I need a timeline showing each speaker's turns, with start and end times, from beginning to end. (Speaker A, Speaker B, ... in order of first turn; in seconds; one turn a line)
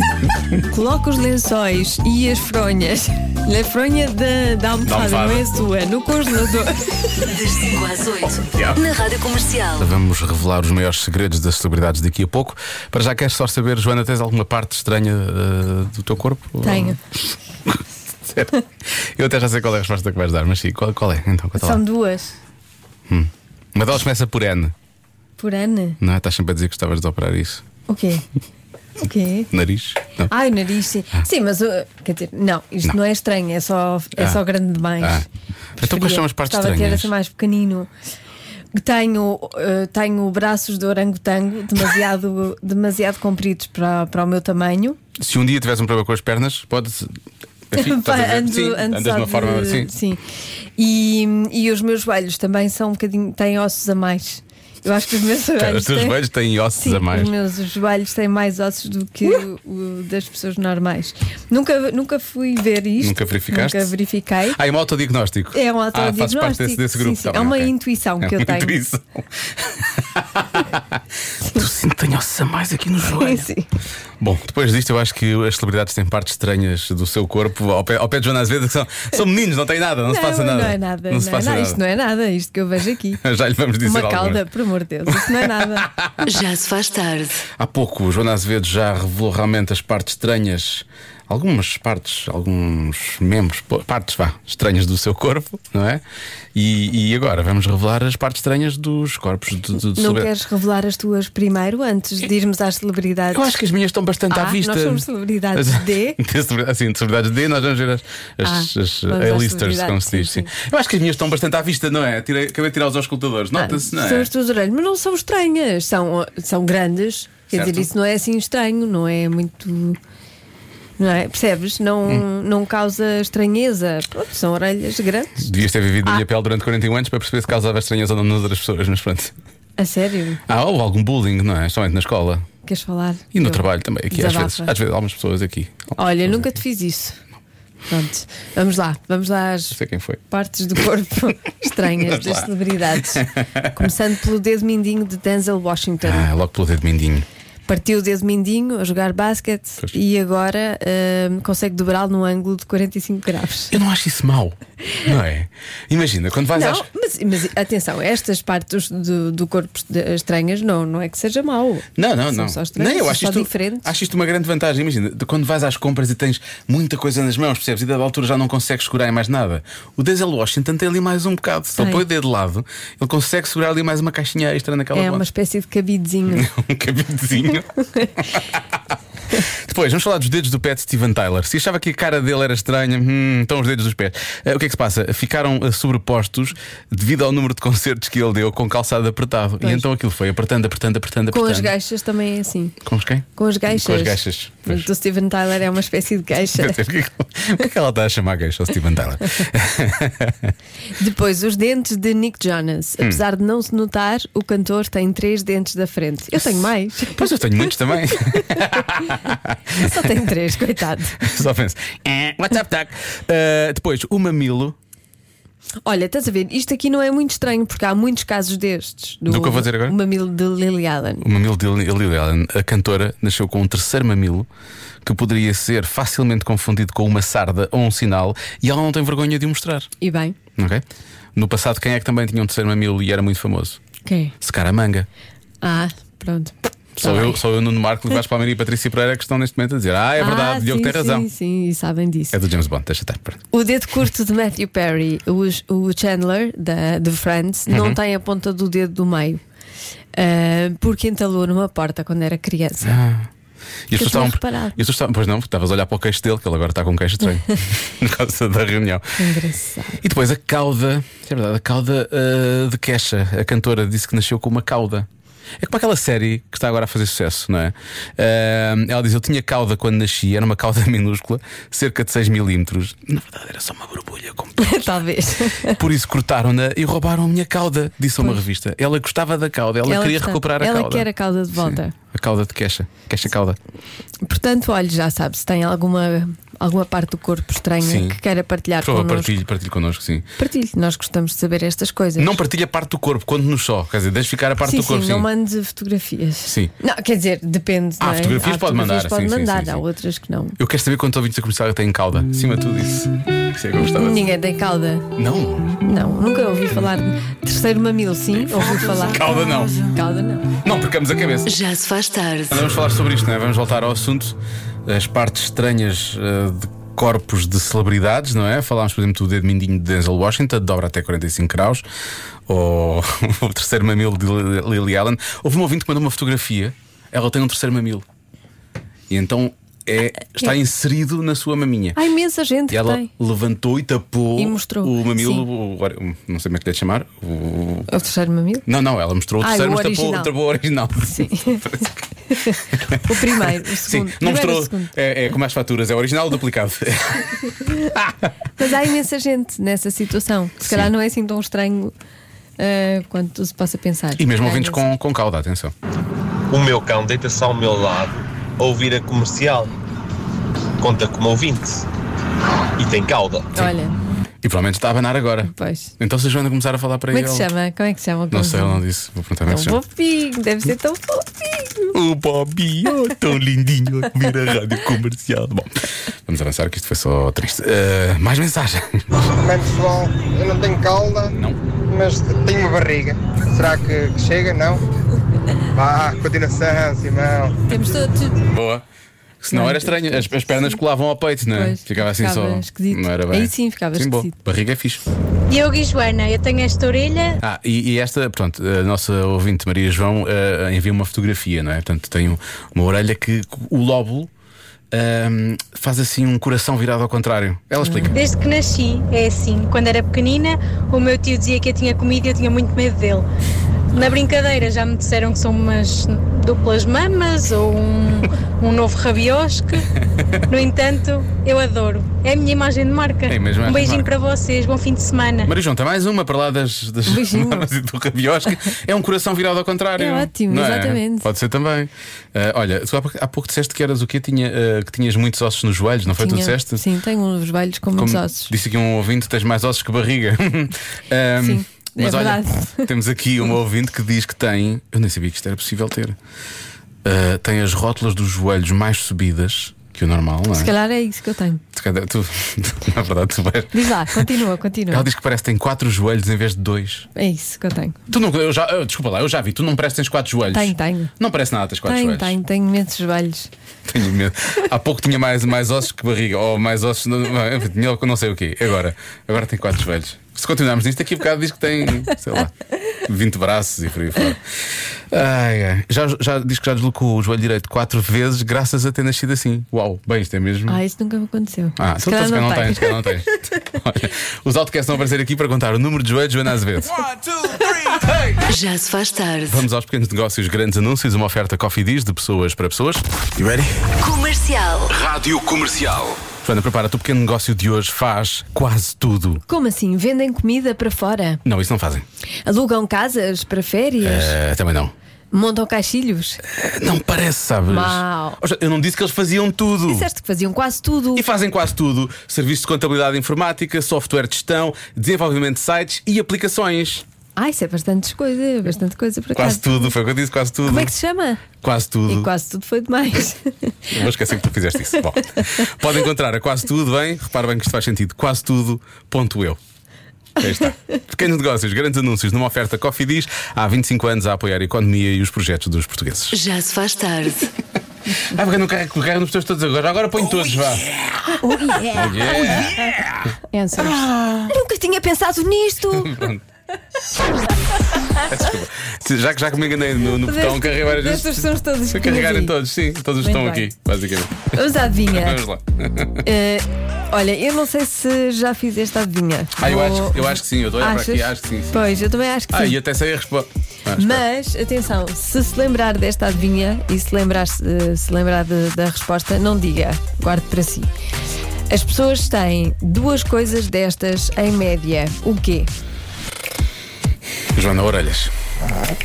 Speaker A: 0.7-6.8
Speaker B: 4.8-5.5
Speaker C: 7.2-9.9
Speaker B: 8.5-8.8
Speaker B: 9.8-21.8
Speaker A: 16.6-17.0
Speaker A: 21.6-22.4
Speaker B: 23.1-24.7
Speaker A: 25.4-26.0
Speaker B: 26.0-27.6
Speaker A: 27.9-28.2
Speaker A: 29.0-29.5
Speaker B: 29.5-30.3
Speaker A: 30.3-35.2
Speaker B: 35.0-37.1
Speaker A: 35.8-37.9
Speaker A: 38.7-45.0
Speaker B: 45.2-49.9
Speaker A: 47.7-50.2
Speaker A: 50.8-56.2
Speaker B: 55.5-57.3
Speaker A: 56.8-64.6
Speaker B: 63.0-63.9
Speaker B: 64.5-73.5
Speaker A: 65.5-68.8
Speaker A: 73.0-73.7
Speaker B: 74.2-81.8
Speaker A: 80.1-83.2
Speaker B: 83.2-84.4
Speaker A: 83.8-85.9
Speaker B: 85.6-86.3
Speaker C: 86.2-87.4
Speaker B: 87.5-96.0
Speaker B: 96.5-100.3
Speaker A: 99.9-103.5
Speaker B: 103.3-114.3
Speaker A: 104.3-106.2
Speaker A: 108.4-110.5
Speaker A: 113.5-120.0
Speaker B: 117.5-117.9
Speaker A: 121.0-125.5
Speaker B: 125.4-129.3
Speaker A: 129.8-130.4
Speaker B: 130.5-132.4
Speaker A: 132.6-134.7
Speaker B: 133.3-136.5
Speaker A: 136.0-137.2
Speaker A: 137.9-139.8
Speaker B: 139.7-140.2
Speaker A: 140.3-146.3
Speaker B: 141.9-142.5
Speaker B: 143.0-143.8
Speaker B: 146.0-147.2
Speaker A: 147.7-153.7
Speaker B: 153.7-156.8
Speaker A: 156.5-163.9
Speaker B: 162.0-175.2
Speaker A: 171.8-172.0
Speaker A: 174.9-176.5
Speaker B: 176.3-177.7
Speaker A: 177.8-178.1
Speaker B: 179.3-191.7
Speaker A: 191.3-192.8
Speaker B: 192.8-194.9
Speaker A: 193.4-196.8
Speaker B: 196.5-200.5
Speaker A: 200.9-207.2
Speaker B: 207.1-210.1
Speaker A: 209.8-211.2
Speaker B: 211.2-214.8
Speaker A: 215.8-221.2
Speaker B: 219.3-220.0
Speaker B: 221.2-224.5
Speaker B: 225.0-229.9
Speaker A: 230.0-230.3
Speaker B: 230.6-233.8
Speaker A: 234.1-234.3
Speaker B: 234.4-235.1
Speaker A: 235.6-237.4
Speaker B: 237.0-241.3
Speaker A: 240.2-242.4
Speaker B: 242.3-243.4
Speaker A: 243.5-249.4
Speaker B: 247.7-248.0
Speaker A: 250.1-253.0
Speaker B: 252.8-253.3
Speaker B: 253.9-259.3
Speaker A: 253.9-254.8
Speaker A: 259.2-260.0
Speaker B: 260.0-265.1
Speaker B: 265.6-274.9
Speaker A: 274.6-275.8
Speaker B: 275.6-283.6
Speaker A: 279.8-281.9
Speaker A: 284.2-289.3
Speaker B: 287.8-288.2
Speaker B: 288.8-290.3
Speaker A: 290.4-292.4
Speaker B: 292.2-295.3
Speaker A: 294.6-300.6
Speaker B: 296.4-296.7
Speaker B: 298.0-299.8
Speaker B: 300.6-304.3
Speaker A: 303.8-305.1
Speaker B: 305.1-305.8
Speaker A: 305.8-310.5
Speaker B: 308.6-309.9
Speaker B: 310.6-311.5
Speaker C: 311.4-312.7
Speaker B: 312.5-321.8
Speaker B: 322.5-328.0
Speaker B: 329.1-332.0
Speaker A: 331.9-333.1
Speaker B: 332.7-337.9
Speaker A: 334.4-335.4
Speaker A: 337.9-338.6
Speaker B: 338.6-342.0
Speaker A: 339.4-340.3
Speaker A: 341.1-341.6
Speaker A: 342.3-344.9
Speaker B: 342.7-348.1
Speaker A: 348.6-351.9
Speaker B: 350.6-350.9
Speaker A: 352.6-354.9
Speaker B: 354.2-355.7
Speaker D: 356.5-359.7
Speaker D: 360.8-361.8
Speaker D: 362.8-363.5
Speaker A: 363.5-364.0
Speaker B: 364.4-367.5
Speaker A: 365.4-365.9
Speaker A: 367.1-368.8
Speaker B: 368.3-369.8
Speaker A: 369.5-371.9
Speaker B: 371.9-379.1
Speaker E: 379.4-381.3
Speaker B: 381.3-381.6
Speaker E: 381.9-384.8
Speaker E: 385.7-387.6
Speaker A: 387.7-388.4
Speaker B: 388.4-388.8
Speaker B: 389.4-395.0
Speaker A: 389.5-390.8
Speaker A: 391.5-394.3
Speaker F: 395.5-397.4
Speaker B: 397.4-404.3
Speaker B: 404.9-408.2
Speaker A: 407.8-408.1
Speaker F: 408.1-413.3
Speaker F: 413.9-419.9
Speaker B: 420.0-420.4
Speaker F: 420.5-425.5
Speaker B: 423.3-424.1
Speaker B: 425.4-436.8
Speaker A: 427.1-427.7
Speaker A: 430.0-431.3
Speaker A: 436.1-438.5
Speaker B: 437.9-446.2
Speaker A: 441.4-442.9
Speaker B: 447.0-450.7
Speaker A: 450.5-451.6
Speaker B: 451.7-454.3
Speaker A: 453.7-455.1
Speaker B: 454.9-457.1
Speaker A: 457.1-458.0
Speaker B: 458.1-462.4
Speaker A: 460.5-461.1
Speaker A: 461.9-463.5
Speaker B: 463.9-474.4
Speaker B: 475.1-480.8
Speaker A: 480.7-483.3
Speaker B: 481.8-488.4
Speaker C: 488.5-489.6
Speaker B: 489.5-493.9
Speaker C: 494.0-495.0
Speaker B: 494.9-499.4
Speaker A: 499.5-501.4
Speaker B: 501.4-502.1
Speaker A: 502.4-504.4
Speaker B: 504.0-504.9
Speaker A: 505.3-506.4
Speaker B: 506.4-510.1
Speaker A: 507.7-508.4
Speaker A: 509.9-511.2
Speaker B: 511.1-517.0
Speaker A: 517.4-519.9
Speaker B: 519.3-520.9
Speaker A: 520.6-521.4
Speaker B: 521.6-522.3
Speaker A: 522.1-523.9
Speaker B: 523.9-529.6
Speaker B: 530.4-536.4
Speaker C: 536.3-537.5
Speaker B: 538.2-541.1
Speaker A: 541.3-543.0
Speaker B: 541.9-544.5
Speaker A: 543.5-546.2
Speaker B: 545.9-546.4
Speaker B: 548.2-556.2
Speaker A: 550.1-552.6
Speaker A: 553.2-553.7
Speaker A: 554.5-555.4
Speaker A: 556.2-562.8
Speaker B: 559.6-564.2
Speaker A: 564.0-570.9
Speaker A: 571.7-575.7
Speaker B: 577.5-578.3